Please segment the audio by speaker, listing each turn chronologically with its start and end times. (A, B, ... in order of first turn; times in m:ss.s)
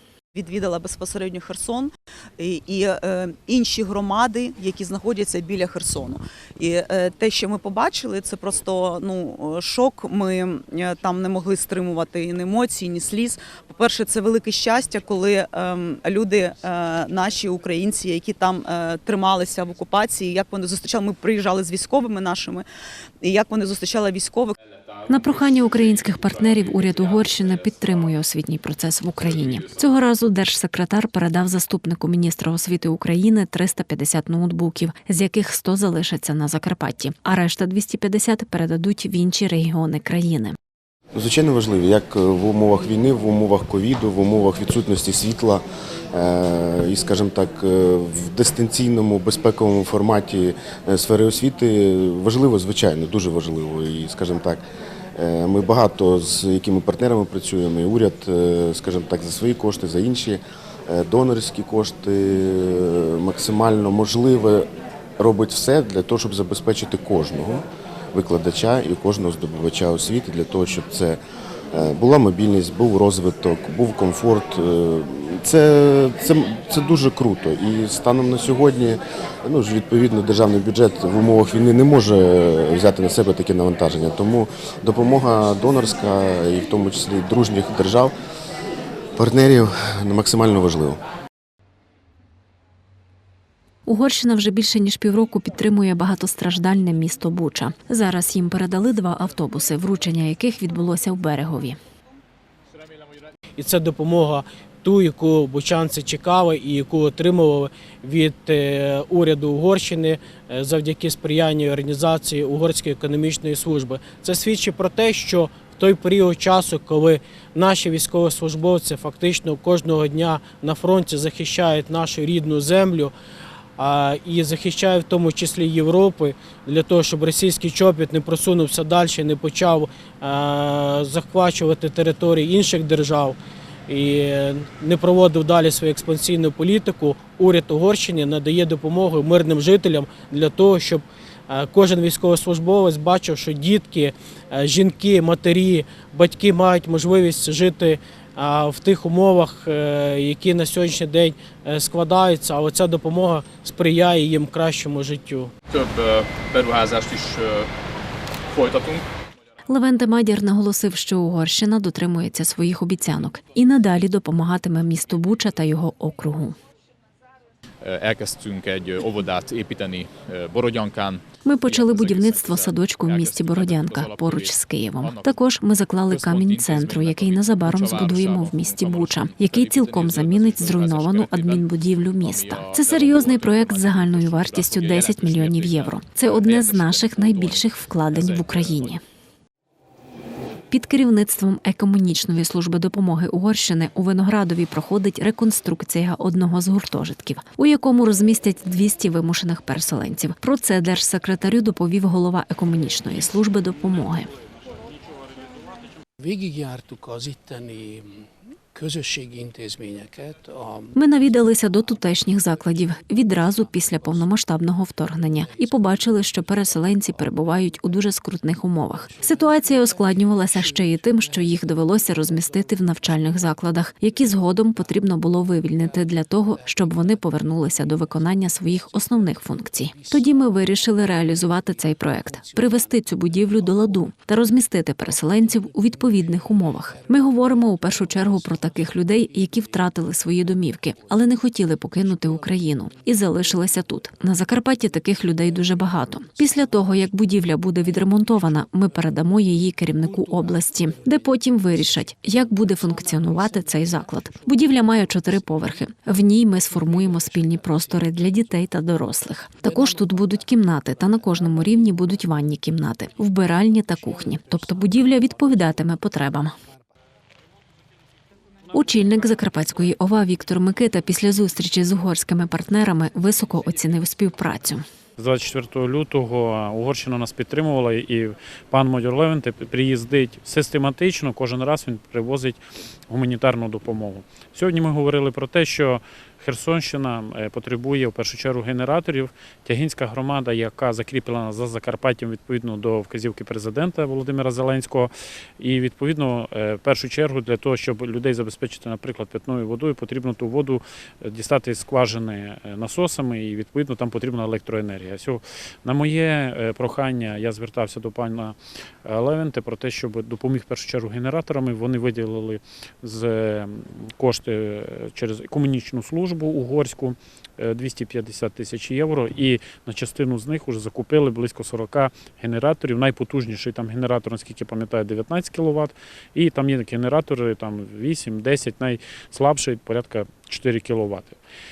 0:00.3-0:22.7 A
0:23.2-0:24.5 A
0:25.1-0:40.6 B
0:26.7-0:27.4 C
0:41.1-0:54.6 D
0:55.2-1:11.2 D
1:11.7-1:28.1 D
1:29.2-1:31.0 D
1:33.9-1:41.8 B
1:43.6-2:03.1 E
2:03.8-2:13.4 E
2:13.9-2:35.5 E
2:35.7-2:37.7 C
2:38.5-2:39.0 C
2:39.7-2:46.6 B
2:47.8-2:55.4 C
2:51.4-3:09.0 B
2:56.1-3:01.7 C
3:02.2-3:09.0 C
3:10.7-3:24.3 B
3:26.2-3:28.0 F
3:28.7-3:30.9 F
3:31.0-4:26.5 B
3:39.4-3:39.7 F
3:40.6-3:40.8 F
3:49.0-3:49.3 F
3:49.9-3:54.0 F
3:55.6-3:59.6 F
4:02.3-4:02.6 F
4:10.0-4:11.3 F
4:16.9-4:17.5 F
4:28.7-4:34.8 B
4:35.2-5:31.4 G